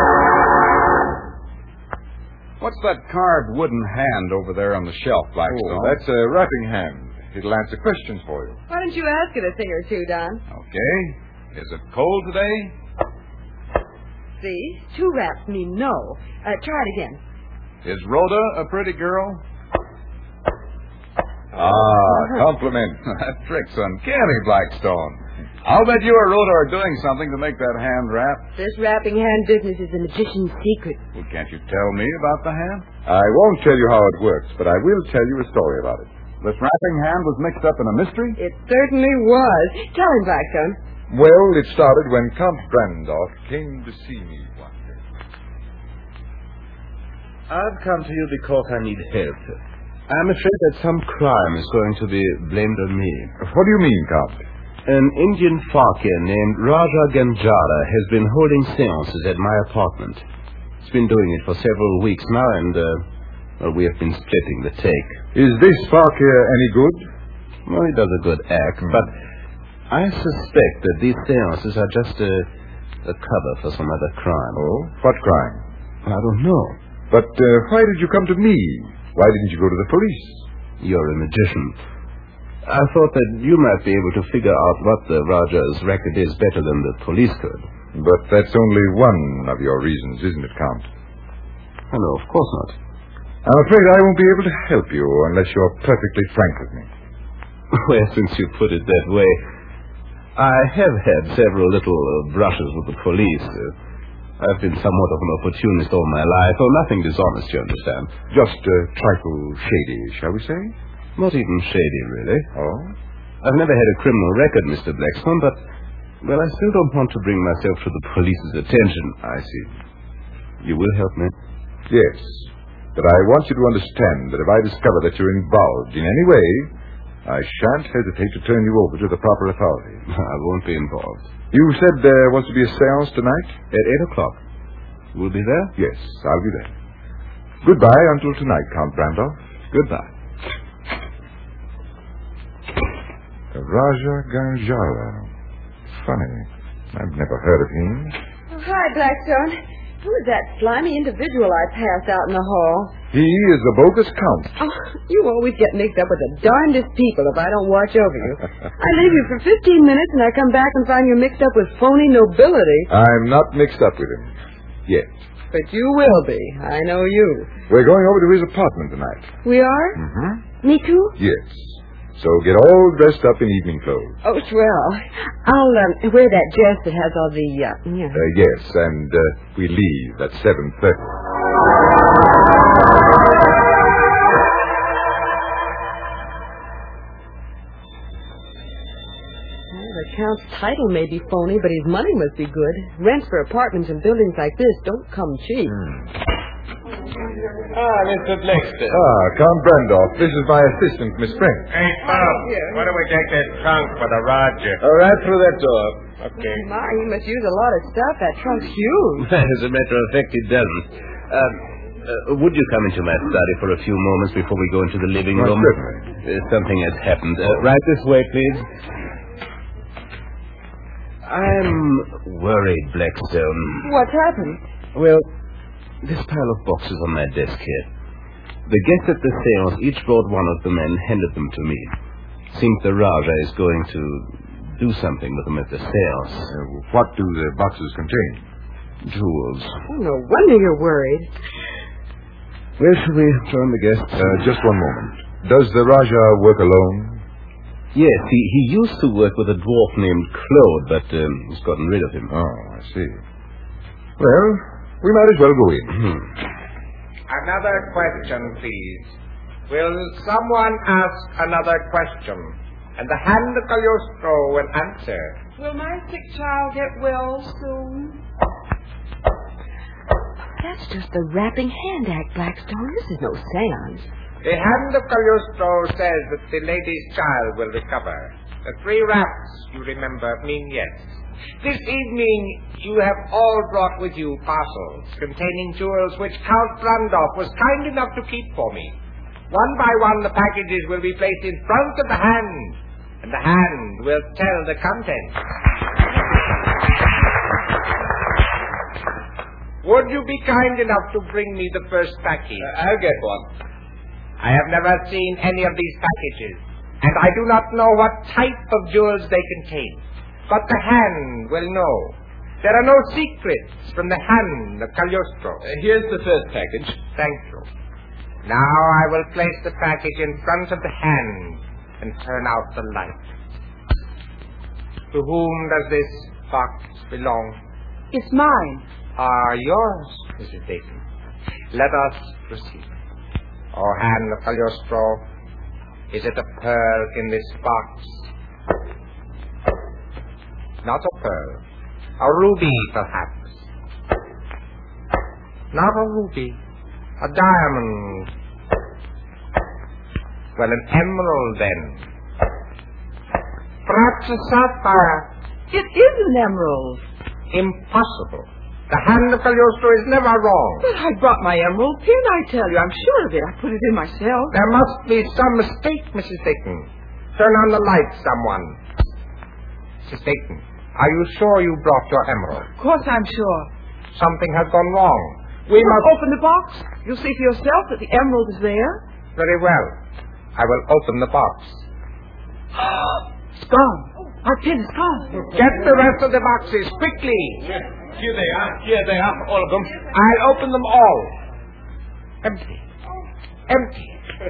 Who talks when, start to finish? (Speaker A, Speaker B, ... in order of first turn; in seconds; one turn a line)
Speaker A: 2.6-6.0
Speaker B: 5.5-8.6
Speaker C: 8.7-10.4
Speaker A: 10.5-12.7
Speaker C: 14.4-17.2
Speaker A: 17.8-19.4
Speaker B: 21.5-23.0
Speaker C: 22.1-22.4
Speaker A: 23.1-28.4
Speaker C: 28.6-31.0
Speaker A: 31.1-32.8
Speaker B: 33.0-36.1
Speaker A: 36.4-38.4
Speaker C: 38.4-40.8
Speaker B: 41.1-45.0
Speaker D: 47.5-49.5
Speaker D: 50.1-53.3
Speaker B: 53.4-54.4
Speaker D: 54.9-60.2
Speaker D: 60.8-63.0
Speaker D: 63.6-65.2
Speaker B: 65.3-67.1
Speaker D: 67.7-69.1
Speaker D: 69.9-72.5
Speaker D: 73.0-74.6
Speaker B: 74.5-75.6
Speaker D: 76.0-76.8
Speaker B: 77.1-80.4
Speaker D: 80.8-81.7
Speaker D: 82.7-87.6
Speaker B: 87.9-90.9
Speaker D: 91.9-92.8
Speaker B: 93.4-96.9
Speaker D: 97.7-99.4
Speaker D: 100.3-103.7
Speaker D: 104.4-108.1
Speaker B: 108.3-110.7
Speaker D: 111.2-112.5
Speaker B: 112.5-112.9
Speaker D: 113.4-115.6
Speaker D: 116.2-119.7
Speaker D: 120.6-121.3
Speaker B: 121.9-126.7
Speaker B: 127.2-130.0
Speaker D: 130.1-131.3
Speaker B: 131.5-133.6
Speaker D: 133.7-134.4
Speaker D: 135.1-135.7
Speaker B: 135.8-136.7
Speaker B: 137.6-140.1
Speaker B: 143.5-145.3
Speaker B: 145.9-148.2
Speaker C: 148.5-152.9
Speaker B: 153.1-154.6
Speaker C: 154.6-162.9
Speaker B: 162.9-164.3
Speaker C: 165.5-167.5
Speaker B: 167.7-169.3
Speaker C: 169.4-170.0
Speaker B: 169.9-170.4
Speaker C: 170.6-171.2
Speaker B: 171.2-174.2
Speaker C: 174.2-178.2
Speaker B: 178.1-181.1
Speaker C: 189.7-195.8
Speaker D: 197.7-199.0
Speaker B: 198.9-201.7
Speaker E: 201.9-204.8
Speaker C: 202.0-202.9
Speaker D: 204.8-206.1
Speaker C: 206.3-209.3
Speaker D: 209.2-218.7
Speaker B: 215.3-216.0
Speaker D: 221.3-223.9
Speaker C: 223.8-224.6
Speaker D: 224.9-225.2
Speaker D: 226.0-227.9
Speaker D: 228.7-231.9
Speaker D: 232.5-236.5
Speaker B: 236.5-238.4
Speaker D: 239.0-239.8
Speaker C: 239.9-241.3
Speaker D: 242.8-244.4
Speaker B: 244.2-247.2
Speaker D: 247.9-252.3
Speaker B: 252.3-253.2
Speaker B: 254.2-256.0
Speaker E: 257.3-259.1
Speaker E: 259.7-265.4
Speaker F: 265.6-268.2
Speaker C: 270.6-274.1
Speaker E: 274.4-281.1
Speaker E: 281.6-289.0
Speaker E: 289.5-295.4
Speaker E: 299.8-302.7
Speaker A: 302.6-303.5
Speaker E: 304.4-315.6
Speaker D: 315.6-317.0
Speaker E: 317.1-317.7
Speaker E: 318.4-323.2
Speaker E: 325.1-327.6
Speaker F: 328.1-328.8
Speaker E: 329.2-331.0
Speaker E: 331.7-332.9
Speaker E: 333.7-335.2
Speaker E: 336.1-338.3
Speaker E: 340.8-341.6
Speaker E: 342.2-343.6
Speaker E: 345.7-346.6
Speaker E: 347.2-348.3
Speaker E: 350.6-352.0
Speaker E: 353.9-355.3
Speaker F: 355.7-357.0
Speaker E: 357.5-360.9
Speaker F: 360.8-364.5
Speaker E: 364.5-368.8
Speaker E: 370.0-372.7
Speaker F: 372.7-373.7
Speaker E: 374.1-376.1
Speaker F: 375.7-379.0
Speaker E: 379.4-379.9
Speaker E: 380.6-381.8
Speaker F: 382.8-385.4
Speaker E: 385.3-387.7
Speaker D: 388.2-389.9
Speaker E: 390.0-391.3
Speaker E: 392.4-392.8
Speaker E: 393.7-394.1